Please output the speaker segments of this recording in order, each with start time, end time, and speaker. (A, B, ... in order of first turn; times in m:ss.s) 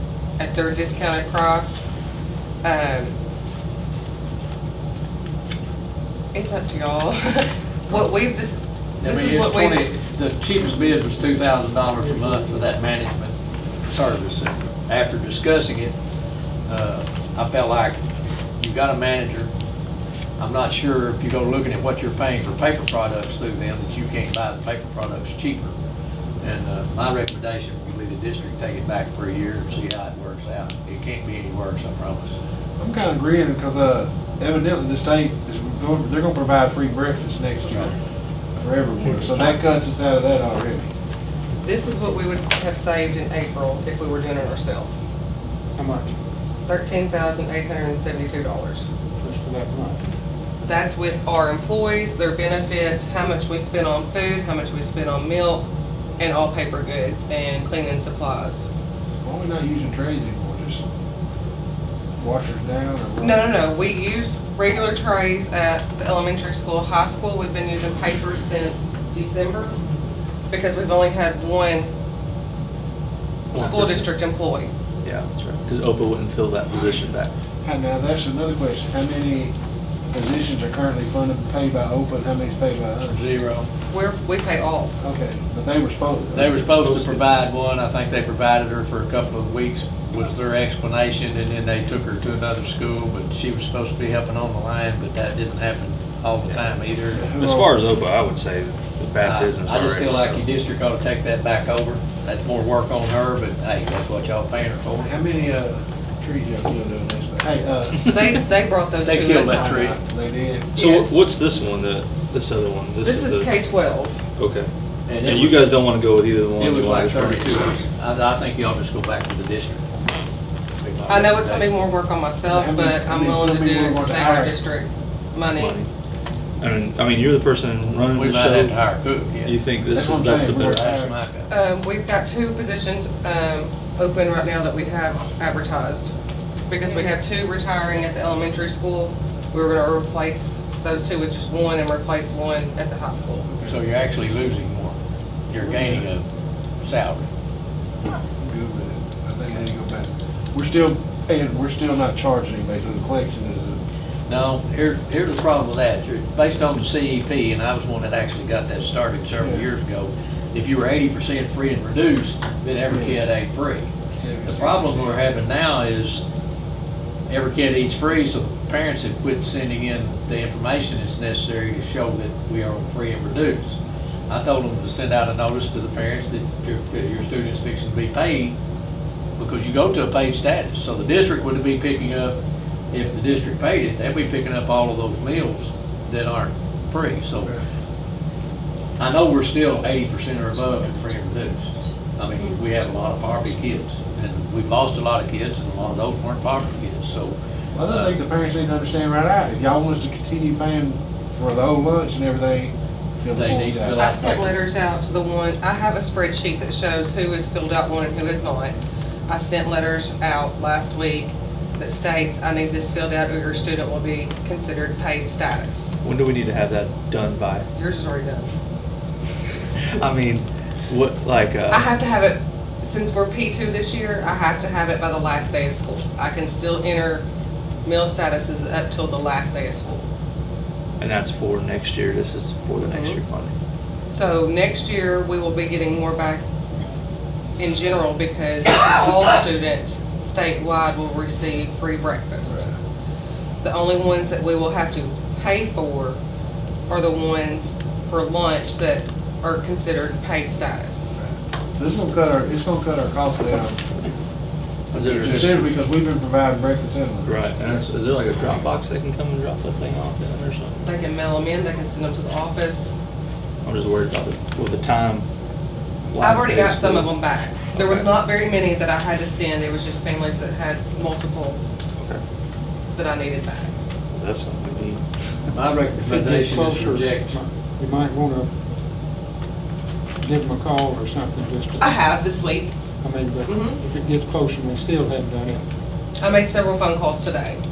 0:00.4-0:01.9 A
0:02.6-0:03.2 A
0:06.3-0:09.9 A
0:09.0-0:16.0 B
0:16.7-0:18.0 B
0:18.6-0:19.5 B
0:20.4-0:25.7 B
0:26.4-0:32.4 B
0:32.8-0:38.0 C
0:38.6-0:40.9 C
0:41.6-0:45.0 A
0:45.8-0:46.1 D
0:46.7-0:48.9 A
0:49.2-0:50.0 D
0:50.6-0:58.6 A
0:59.2-1:00.8 C
1:02.2-1:03.5 C
1:03.2-1:09.7 A
1:10.5-1:11.9 A
1:13.5-1:14.1 E
1:13.5-1:14.7 A
1:15.0-1:17.3 E
1:17.6-1:19.5 C
1:20.1-1:23.3 C
1:23.1-1:23.7 B
1:23.9-1:24.9 A
1:25.0-1:26.8 C
1:26.3-1:37.2 B
1:26.8-1:27.2 E
1:37.1-1:37.7 C
1:37.3-1:40.4 E
1:39.2-1:45.1 B
1:44.9-1:48.0 C
1:48.1-1:49.8 A
1:49.0-1:50.0 B
1:49.4-1:50.7 C
1:50.8-1:51.1 A
1:50.8-1:53.5 E
1:53.0-1:54.2 A
1:54.4-1:54.7 E
1:55.1-1:55.8 B
1:55.2-1:57.7 E
1:56.6-1:59.8 B
2:00.8-2:01.9 B
2:01.1-2:05.8 A
2:02.5-2:04.5 C
2:05.5-2:05.9 E
2:06.6-2:08.8 E
2:08.1-2:09.6 B
2:09.4-2:10.8 E
2:09.9-2:11.1 C
2:10.5-2:11.5 B
2:11.5-2:16.1 A
2:16.7-2:23.5 A
2:23.4-2:23.8 C
2:23.6-2:25.0 B
2:25.5-2:26.2 B
2:25.5-2:26.1 C
2:26.8-2:27.3 B
2:28.4-2:33.8 C
2:34.3-2:43.9 B
2:39.4-2:39.7 C
2:42.9-2:43.2 C
2:44.2-2:45.3 C
2:44.4-2:46.2 B
2:47.3-2:58.6 B
2:59.4-3:02.4 B
3:02.9-3:07.6 B
3:09.0-3:17.4 B
3:17.7-3:24.0 C
3:17.9-3:18.2 B
3:23.3-3:24.6 B
3:23.9-3:28.7 A
3:29.3-3:36.0 A
3:36.0-3:37.7 E
3:37.7-3:38.5 A
3:39.9-3:41.9 E
3:41.7-3:47.2 A
3:47.8-3:50.1 A
3:51.0-3:53.5 E
3:52.8-3:53.2 A
3:54.1-3:56.4 A
3:57.6-4:02.7 A
4:02.4-4:02.8 C
4:03.6-4:06.2 A
4:06.9-4:11.1 A
4:11.2-4:13.8 C
4:14.9-4:15.7 E
4:15.1-4:15.4 B
4:15.1-4:17.4 C
4:17.2-4:20.8 E
4:20.8-4:23.0 A
4:23.6-4:25.3 E
4:26.1-4:27.1 E
4:26.2-4:31.6 A
4:27.7-4:28.1 E
4:32.9-4:33.7 A
4:34.1-4:35.5 E
4:35.5-4:37.3 B
4:36.1-4:38.5 D
4:40.2-4:41.8 D
4:41.8-4:42.7 A
4:43.0-4:45.6 D
4:43.4-4:43.8 A
4:46.2-4:47.6 A